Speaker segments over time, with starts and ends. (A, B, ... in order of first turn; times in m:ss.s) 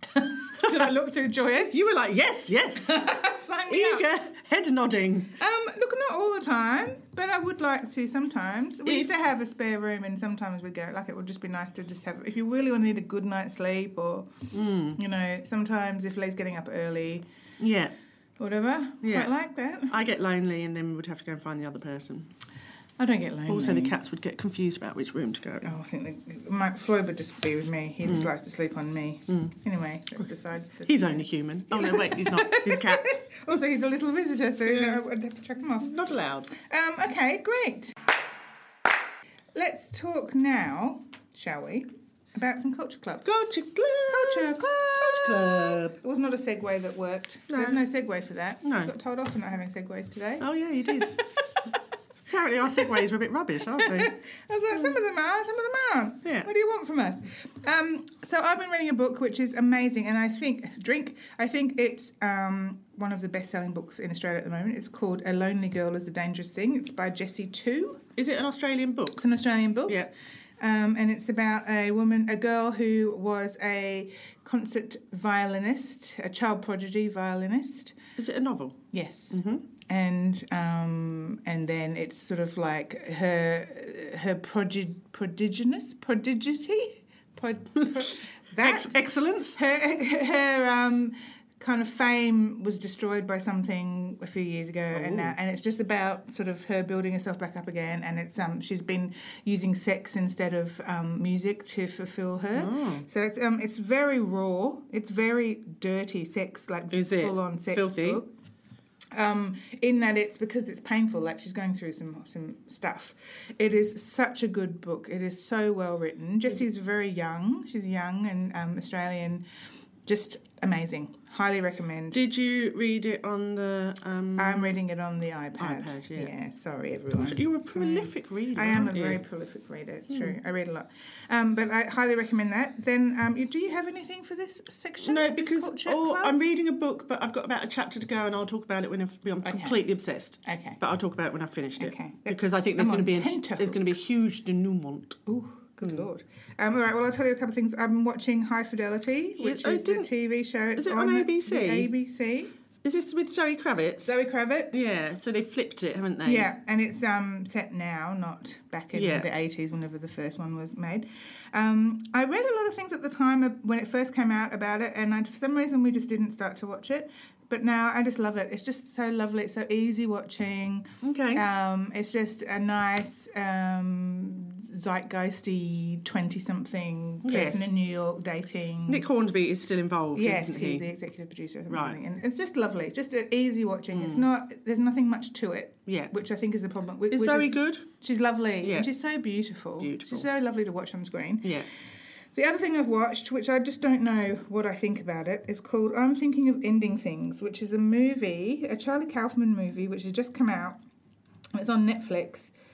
0:00.1-0:01.8 A
0:00.6-0:00.9 B
0:01.7-0:03.1 B
0:02.8-0:04.1 A
0:03.7-0:05.4 B
0:05.4-0:17.2 A
0:08.8-0:09.1 B
0:14.5-0:15.0 B
0:17.6-0:17.9 B
0:18.4-0:19.9 A
0:19.0-0:19.3 B
0:19.9-0:22.3 B
0:23.0-0:23.9 A
0:23.5-0:25.7 B
0:25.6-0:35.9 A
0:30.8-0:33.1 B
0:34.7-0:35.0 B
0:35.8-0:36.5 B
0:36.5-0:38.0 A
0:39.5-0:43.3 A
0:43.2-0:46.0 B
0:44.1-0:51.8 A
0:47.5-0:47.8 B
0:48.6-0:48.9 B
0:50.4-0:51.2 B
0:52.2-0:54.1 B
0:53.7-1:08.0 A
1:08.2-1:09.2 B
1:09.2-1:17.9 A
1:18.2-1:18.8 B
1:18.9-1:29.0 A
1:19.3-1:19.6 B
1:27.8-1:28.1 B
1:28.6-1:29.6 B
1:29.6-1:48.3 A
1:34.9-1:35.3 B
1:42.5-1:43.0 B
1:46.9-1:48.2 B
1:49.1-1:59.4 A
2:00.1-2:02.2 A
2:02.1-2:04.8 B
2:04.4-2:16.4 A
2:05.6-2:06.3 B
2:07.1-2:09.2 B
2:10.1-2:10.4 B
2:15.0-2:25.2 B
2:19.4-2:19.8 A
2:20.4-2:20.8 A
2:21.8-2:23.8 A
2:25.2-2:32.5 A
2:29.4-2:30.1 B
2:30.8-2:31.9 B
2:32.8-2:34.1 B
2:34.0-2:34.8 A
2:34.7-2:36.5 B
2:36.2-2:59.0 A
2:38.9-2:39.3 B
2:51.0-2:51.4 B
2:57.2-2:57.7 B
2:58.9-3:00.9 B
3:00.1-3:11.6 A
3:01.7-3:02.0 B
3:03.9-3:04.3 B
3:05.9-3:06.1 B
3:07.1-3:07.9 B
3:08.6-3:08.9 B
3:09.8-3:10.3 B
3:12.3-3:20.8 A
3:21.5-3:22.5 A